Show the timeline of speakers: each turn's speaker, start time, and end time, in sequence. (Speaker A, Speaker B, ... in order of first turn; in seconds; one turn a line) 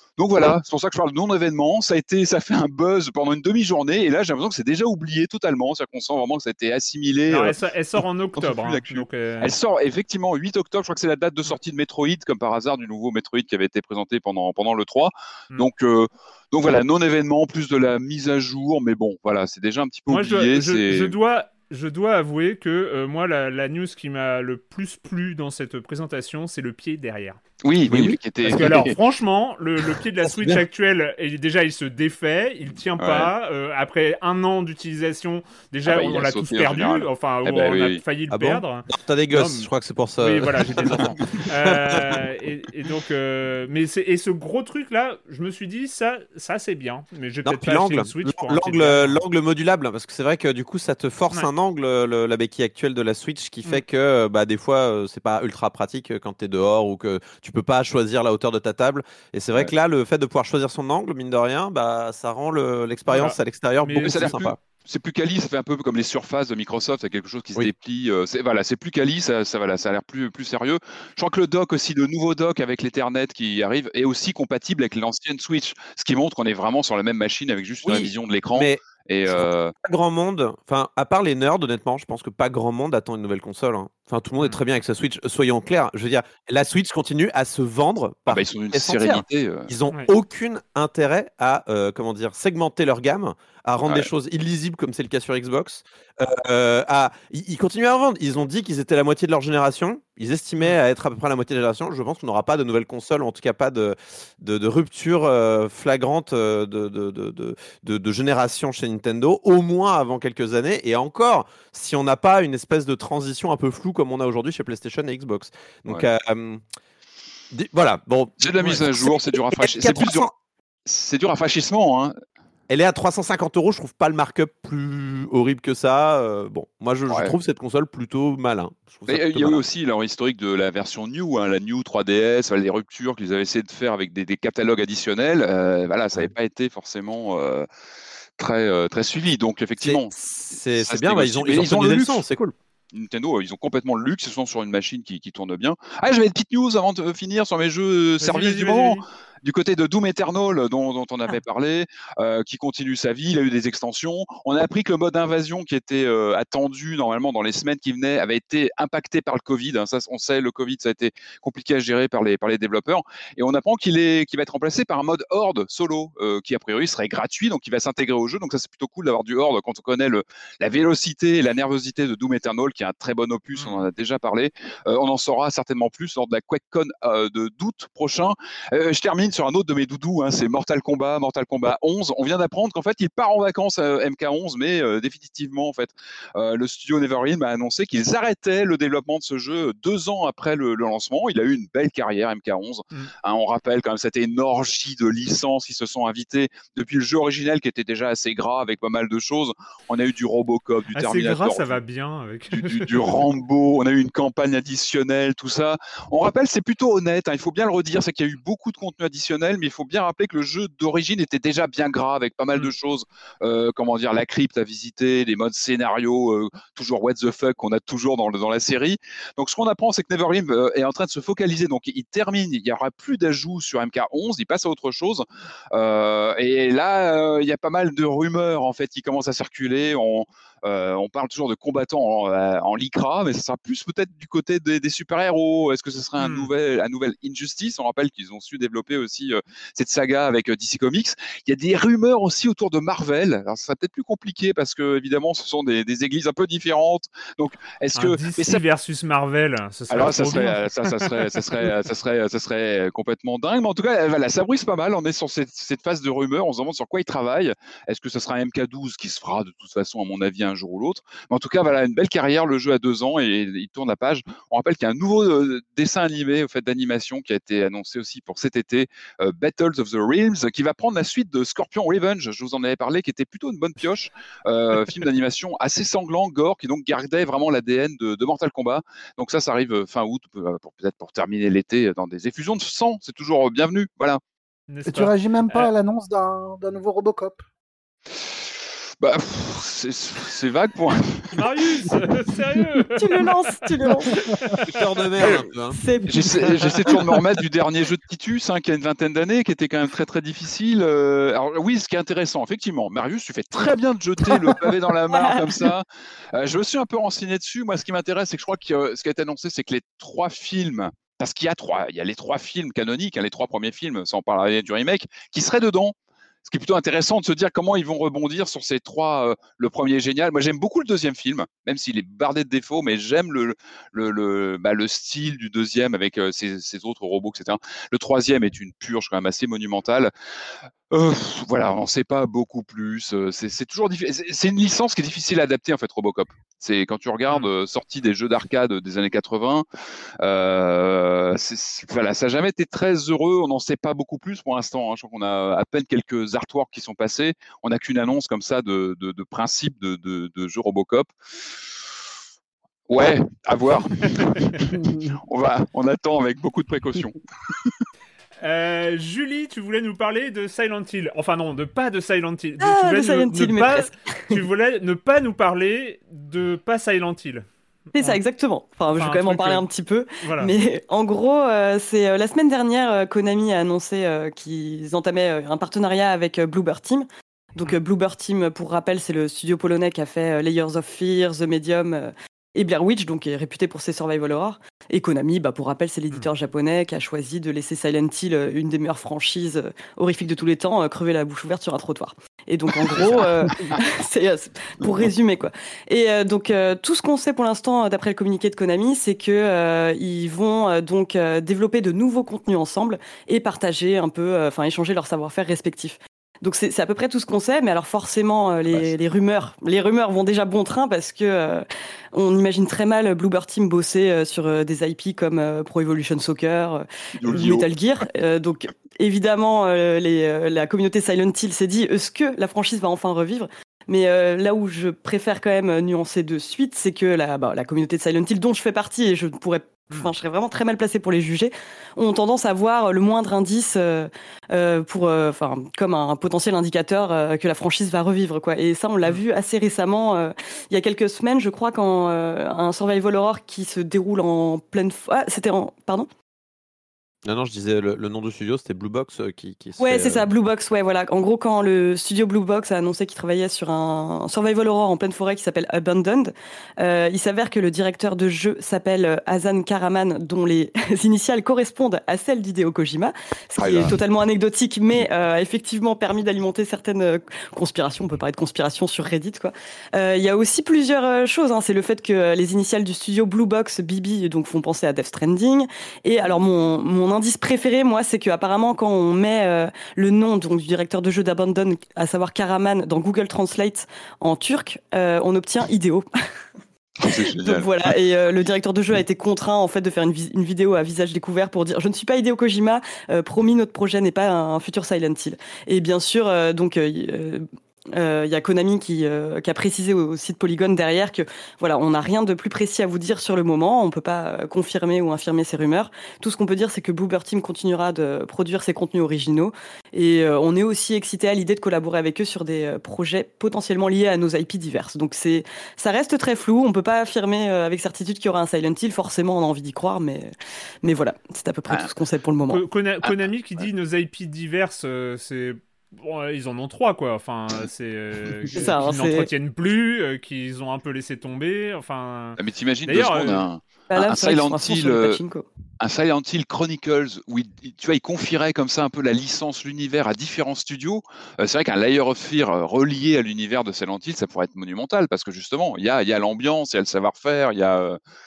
Speaker A: 0.2-7.6
Speaker B: 7.3-9.5
Speaker A: 8.4-21.2
Speaker B: 20.1-27.4
Speaker A: 27.6-29.0
Speaker C: 27.9-28.2
Speaker B: 28.4-49.2
Speaker C: 30.2-30.6
Speaker A: 33.0-33.3
Speaker A: 35.9-38.0
Speaker C: 38.3-42.2
Speaker C: 47.5-64.6
Speaker B: 63.1-64.4
Speaker A: 64.0-79.7
Speaker C: 77.8-116.6
Speaker A: 88.3-89.7
Speaker C: 117.5-120.3
Speaker A: 118.4-120.3
Speaker A: 120.9-122.2
Speaker C: 122.7-129.6
Speaker A: 127.1-127.3
Speaker A: 129.1-137.7
Speaker A: 138.4-140.2
Speaker C: 139.8-142.6
Speaker A: 140.8-142.2
Speaker A: 142.9-201.8
Speaker B: 148.2-149.0
Speaker B: 200.9-202.9
Speaker A: 202.5-248.6
Speaker B: 236.2-236.5
Speaker B: 247.9-251.1
Speaker A: 249.9-284.2
Speaker B: 284.7-285.7
Speaker D: 284.9-287.5
Speaker A: 289.0-291.4
Speaker B: 291.3-293.7
Speaker E: 293.0-294.2
Speaker B: 294.2-294.7
Speaker C: 294.7-295.8
Speaker E: 295.7-297.2
Speaker A: 296.1-315.9
Speaker E: 305.1-305.7
Speaker A: 316.5-330.1
Speaker A: 330.9-339.6
Speaker A: 340.2-351.1
Speaker A: 352.9-357.7
Speaker B: 358.4-367.5
Speaker E: 362.6-364.4
Speaker E: 368.0-446.1
Speaker B: 369.0-369.7
Speaker B: 370.2-370.5
Speaker A: 392.9-393.7
Speaker A: 417.2-417.7
Speaker C: 447.2-450.3
Speaker E: 449.8-486.1
Speaker A: 463.6-464.0
Speaker A: 487.0-488.0
Speaker E: 487.0-497.4
Speaker E: 497.9-520.3
Speaker E: 520.8-522.6
Speaker B: 522.5-533.5
Speaker A: 523.0-523.6
Speaker E: 528.5-529.3
Speaker A: 532.4-535.2
Speaker E: 533.9-535.5
Speaker A: 535.8-548.0